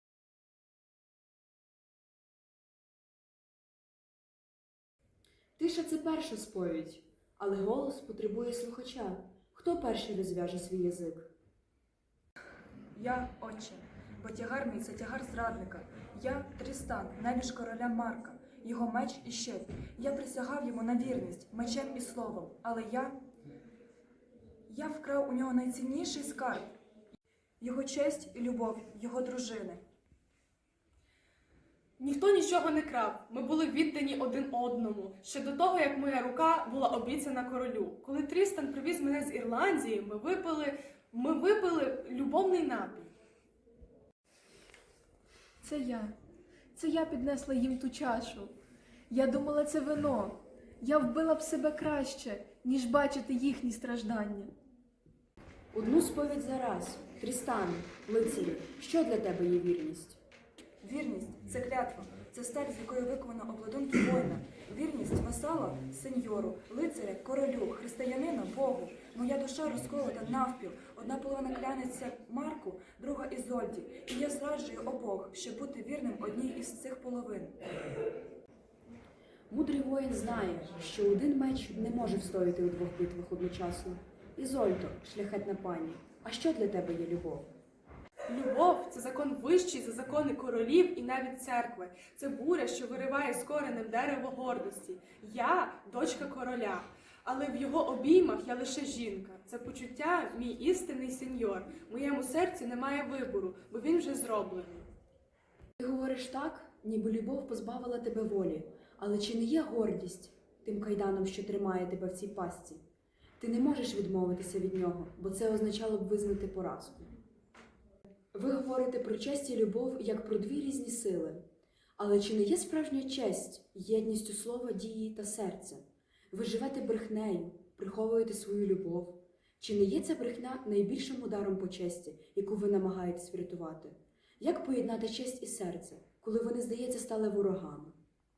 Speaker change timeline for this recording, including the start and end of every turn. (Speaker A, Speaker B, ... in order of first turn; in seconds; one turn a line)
Speaker A: 5.6-11.3
Speaker B: 13.0-23.2
Speaker B: 24.7-26.7
Speaker B: 27.6-29.8
Speaker C: 32.0-43.1
Speaker D: 45.6-46.1
Speaker D: 46.8-48.5
Speaker D: 49.1-54.5
Speaker A: 55.7-60.2
Speaker B: 60.8-77.5
Speaker A: 79.5-87.5
Speaker C: 88.3-104.9
Speaker A: 105.8-112.8
Speaker A: 113.4-117.1
Speaker A: 118.3-121.4
Speaker A: 122.0-137.9